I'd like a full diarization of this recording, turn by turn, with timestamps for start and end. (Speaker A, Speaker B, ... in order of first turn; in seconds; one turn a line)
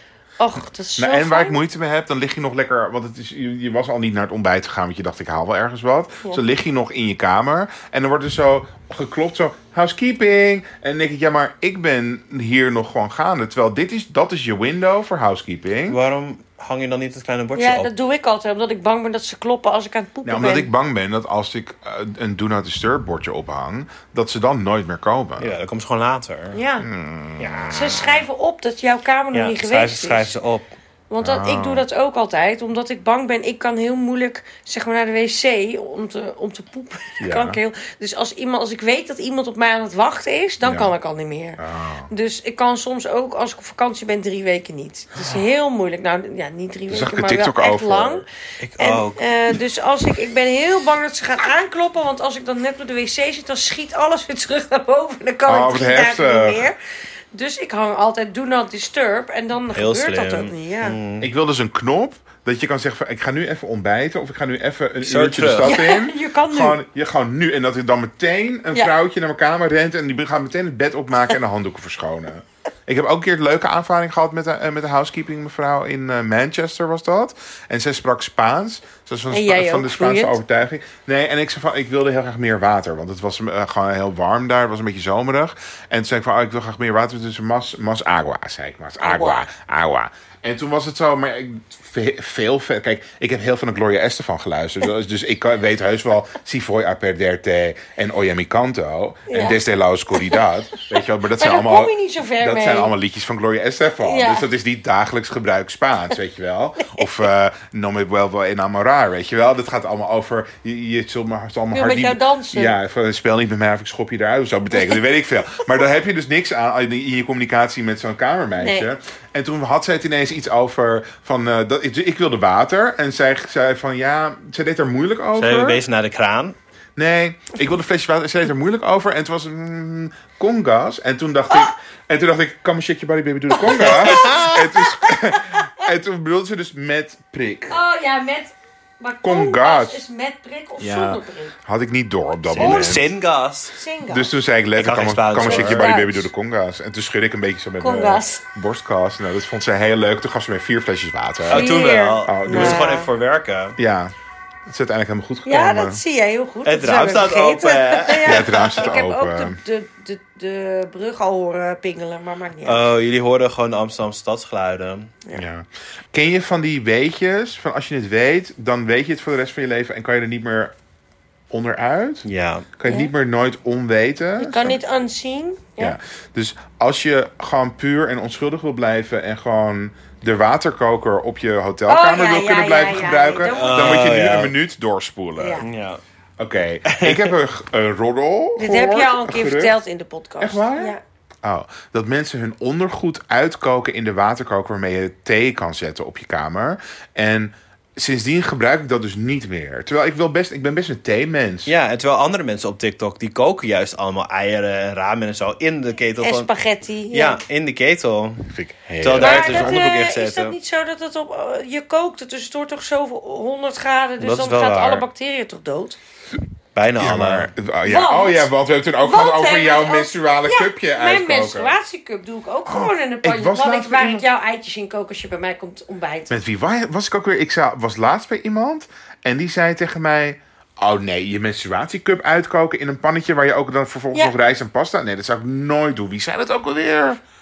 Speaker A: 0.4-1.6
Speaker B: 1.0-16.0
Speaker C: 15.9-17.9
Speaker A: 17.6-20.7
Speaker B: 20.2-25.5
Speaker C: 25.4-26.6
Speaker A: 26.5-26.9
Speaker B: 26.8-27.9
Speaker C: 27.4-28.1
Speaker A: 27.7-30.3
Speaker C: 29.3-30.7
Speaker A: 31.1-48.2
Speaker B: 31.2-31.8
Speaker B: 37.2-37.6
Speaker B: 40.6-40.9
Speaker B: 41.6-42.1
Speaker B: 46.9-48.2
Speaker C: 48.6-49.2
Speaker A: 48.8-56.8
Speaker B: 55.5-56.7
Speaker A: 57.3-61.0
Speaker C: 59.7-61.3
Speaker B: 61.2-125.8
Speaker C: 65.0-65.7
Speaker A: 65.6-66.8
Speaker A: 79.3-80.4
Speaker A: 89.0-89.4
Speaker A: 99.3-99.6
Speaker A: 100.1-100.8
Speaker A: 101.3-102.9
Speaker A: 104.0-104.5
Speaker A: 106.8-107.1
Speaker A: 111.7-112.7
Speaker A: 118.6-118.9
Speaker C: 125.3-126.5
Speaker B: 127.0-137.8
Speaker C: 133.6-134.6
Speaker A: 133.7-135.8
Speaker A: 137.7-141.6
Speaker B: 139.2-140.0
Speaker B: 140.8-143.0
Speaker C: 142.5-143.7
Speaker A: 142.6-143.1
Speaker A: 143.7-144.3
Speaker B: 144.1-151.7
Speaker C: 144.8-145.9
Speaker A: 145.4-146.3
Speaker A: 147.8-148.4
Speaker A: 151.5-153.1
Speaker C: 151.5-153.8
Speaker B: 152.2-152.9
Speaker B: 153.8-154.1
Speaker B: 154.7-156.0
Speaker A: 155.4-162.9
Speaker C: 156.6-158.8
Speaker B: 158.2-159.6
Speaker C: 162.6-165.1
Speaker B: 165.3-170.7
Speaker B: 171.5-174.8
Speaker C: 172.2-172.7
Speaker A: 172.8-173.1
Speaker A: 174.4-176.0
Speaker B: 175.8-185.6
Speaker A: 181.9-184.1
Speaker C: 183.4-184.5
Speaker A: 185.4-185.7
Speaker C: 185.6-186.0
Speaker B: 186.4-189.8
Speaker C: 186.8-187.3
Speaker A: 188.6-191.0
Speaker B: 190.4-201.7
Speaker C: 201.7-206.5
Speaker A: 206.2-207.4
Speaker C: 207.1-210.5
Speaker B: 208.5-209.8
Speaker A: 209.2-216.0
Speaker C: 214.2-215.0
Speaker C: 216.7-217.5
Speaker B: 217.0-221.7
Speaker A: 217.8-226.4
Speaker B: 222.7-224.2
Speaker B: 226.3-237.2